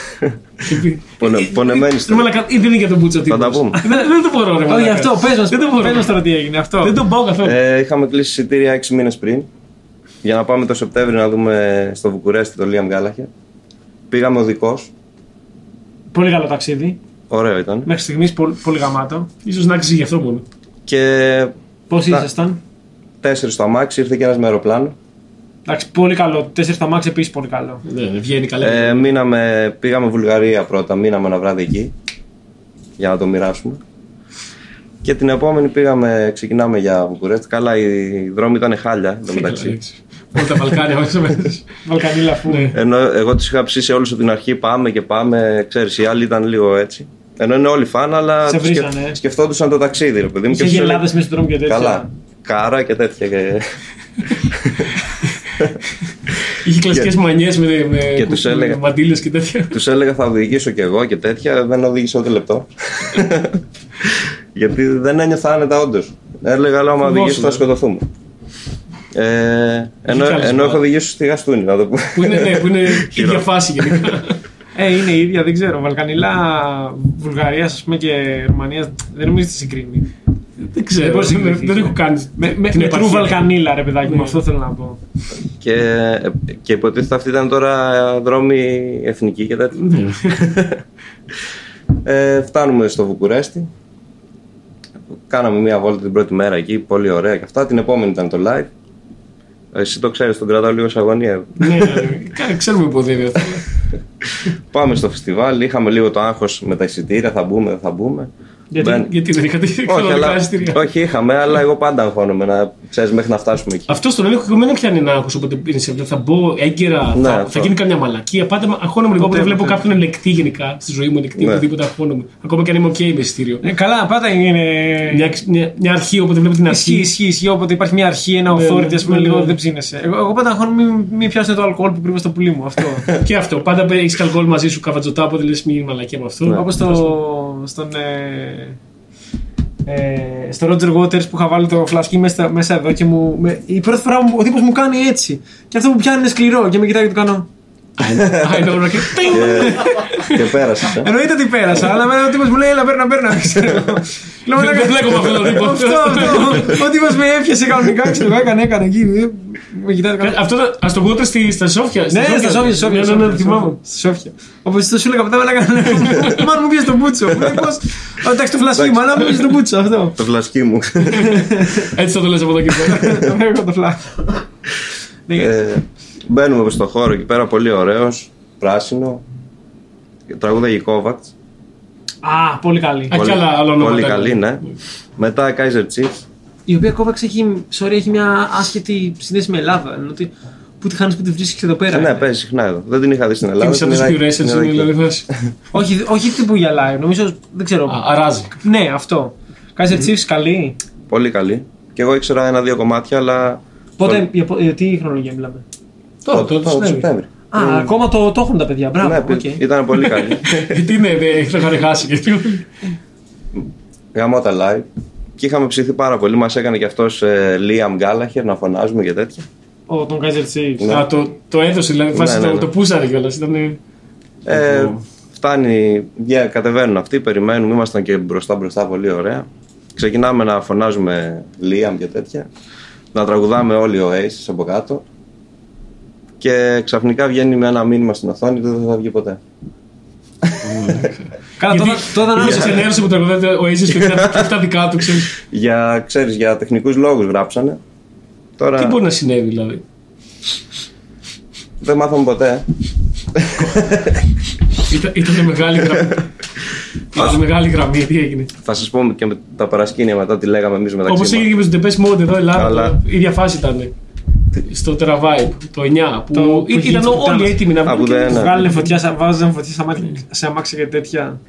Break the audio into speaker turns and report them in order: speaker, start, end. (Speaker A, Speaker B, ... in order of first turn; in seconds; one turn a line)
Speaker A: 0.6-6.1
Speaker B: 1.2-2.3
Speaker B: 3.3-3.8
Speaker C: 4.7-7.0
Speaker A: 6.8-7.6
Speaker B: 7.4-9.5
Speaker B: 10.2-13.3
Speaker B: 14.1-14.9
Speaker C: 16.1-17.0
Speaker B: 17.3-17.9
Speaker C: 17.8-19.3
Speaker A: 19.4-20.4
Speaker B: 20.9-21.5
Speaker C: 21.9-22.6
Speaker B: 23.2-24.9
Speaker C: 25.6-27.8
Speaker A: 27.8-29.1
Speaker B: 28.6-31.9
Speaker B: 33.0-33.8
Speaker B: 35.0-39.8
Speaker A: 39.3-41.6
Speaker C: 41.8-42.7
Speaker A: 42.5-42.8
Speaker B: 42.7-51.1
Speaker C: 48.5-49.2
Speaker C: 50.5-52.1
Speaker B: 51.6-55.0
Speaker A: 56.5-59.8
Speaker B: 58.1-58.8
Speaker B: 59.7-68.1
Speaker A: 67.0-67.6
Speaker B: 69.1-74.2
Speaker A: 70.1-70.8
Speaker A: 72.1-74.4
Speaker C: 74.7-80.1
Speaker A: 80.6-83.5
Speaker C: 81.0-85.0
Speaker A: 84.0-84.4
Speaker B: 85.6-90.8
Speaker A: 89.8-90.4
Speaker B: 92.0-93.7
Speaker B: 95.1-98.7
Speaker B: 99.7-102.1
Speaker A: 101.6-103.6
Speaker B: 104.5-109.1
Speaker A: 108.7-110.8
Speaker B: 109.8-114.0
Speaker A: 113.9-123.6
Speaker B: 117.1-117.7
Speaker C: 119.2-119.8
Speaker B: 121.4-121.6
Speaker C: 123.6-125.3
Speaker A: 125.1-127.1
Speaker C: 126.7-133.1
Speaker A: 128.5-129.6
Speaker A: 133.1-137.1
Speaker C: 136.5-138.8
Speaker C: 139.8-147.5
Speaker A: 148.0-150.6
Speaker B: 148.0-151.1
Speaker C: 151.0-160.4
Speaker A: 154.5-156.8
Speaker A: 160.2-163.8
Speaker C: 162.1-170.2
Speaker A: 166.0-166.3
Speaker B: 168.8-169.2
Speaker B: 170.2-171.4
Speaker C: 171.2-171.9
Speaker A: 171.2-173.2
Speaker C: 172.7-174.4
Speaker C: 175.3-175.5
Speaker B: 175.3-179.2
Speaker B: 180.3-181.3
Speaker C: 182.2-183.2
Speaker A: 183.1-184.7
Speaker B: 183.1-184.6
Speaker B: 185.2-186.2
Speaker C: 186.7-192.2
Speaker B: 191.9-195.4
Speaker A: 193.6-195.3
Speaker C: 195.7-198.0
Speaker A: 197.9-198.5
Speaker C: 198.6-200.8
Speaker B: 201.1-204.2
Speaker C: 204.0-205.6
Speaker A: 206.2-207.1
Speaker B: 206.3-207.9
Speaker C: 207.5-209.6
Speaker B: 209.0-210.8
Speaker A: 210.0-212.7
Speaker B: 213.5-214.9
Speaker B: 215.4-219.4
Speaker C: 219.9-221.1
Speaker B: 220.8-221.1
Speaker A: 220.9-223.8
Speaker B: 222.1-222.7
Speaker B: 224.4-232.5
Speaker A: 224.5-225.0
Speaker B: 233.1-235.0
Speaker B: 236.4-239.4
Speaker B: 240.4-241.1
Speaker A: 240.6-245.3
Speaker C: 241.6-242.9
Speaker B: 242.4-242.8
Speaker B: 243.9-244.5
Speaker B: 245.3-247.8
Speaker B: 248.6-249.0
Speaker A: 248.8-249.8
Speaker B: 251.8-252.7
Speaker B: 253.3-254.2
Speaker A: 253.6-253.9
Speaker A: 254.8-256.3
Speaker A: 257.1-258.5
Speaker B: 258.6-261.5
Speaker A: 261.1-263.9
Speaker B: 262.5-263.0
Speaker A: 264.6-268.9
Speaker C: 266.3-271.4
Speaker B: 267.8-268.7